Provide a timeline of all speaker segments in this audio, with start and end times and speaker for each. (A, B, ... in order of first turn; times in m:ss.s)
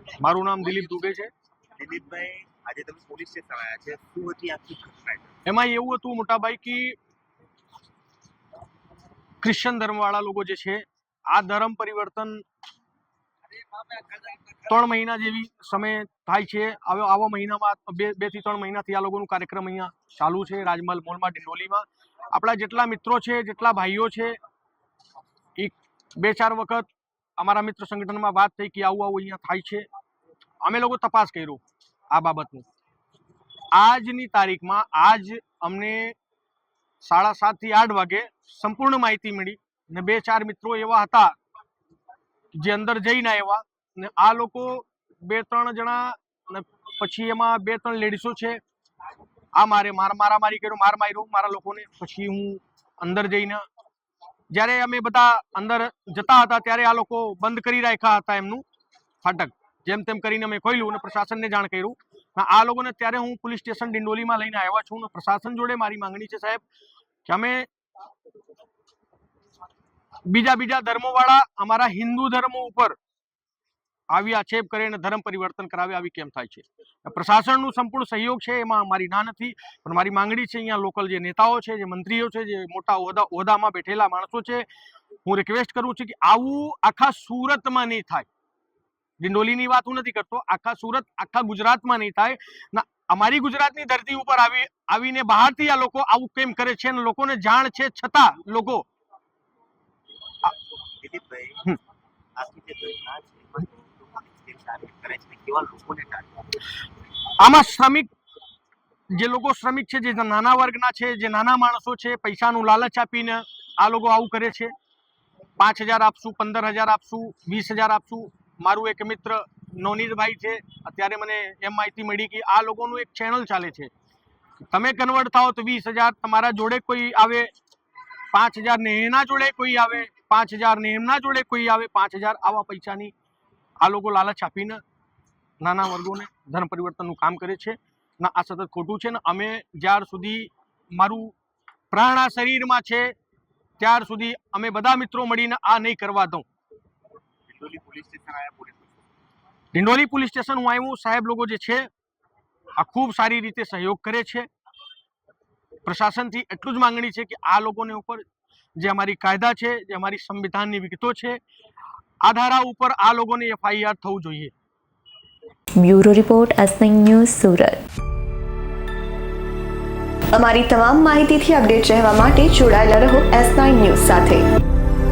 0:00.2-0:01.3 A
0:01.8-0:05.3 B
0:05.4-0:07.0 A
0:09.4-0:12.4 A
0:13.8-0:24.4 A
0:25.6-0:29.8 A
0:30.6-0:31.6 A
0:32.1-0:32.6 A
0:33.7-0:36.1 A
0:37.0-0:41.3 A
0:42.6-0:48.6 A
0:49.6-0:53.6 A
0:54.5-0:58.6 A
0:59.2-1:06.6 A
1:07.2-1:07.7 A
1:10.3-1:13.0 A
1:14.1-1:24.6 A
1:25.2-1:28.2 A
1:29.2-1:38.8 A
1:41.0-1:41.7 B
1:42.4-1:46.5 B
1:47.4-1:48.1 A
1:49.2-1:54.7 A
1:55.6-2:03.9 A
2:04.7-2:07.5 A
2:08.3-2:13.1 A
2:13.8-2:14.8 A
2:15.6-2:21.3 A
2:21.9-2:23.1 A
2:23.8-2:26.4 A
2:27.5-2:29.0 B
2:29.7-2:31.9 A
2:32.8-2:34.5 A
2:35.8-2:38.2 A
2:38.8-2:41.4 A
2:42.2-2:44.5 A
2:45.8-2:47.8 C
2:50.3-2:54.4 D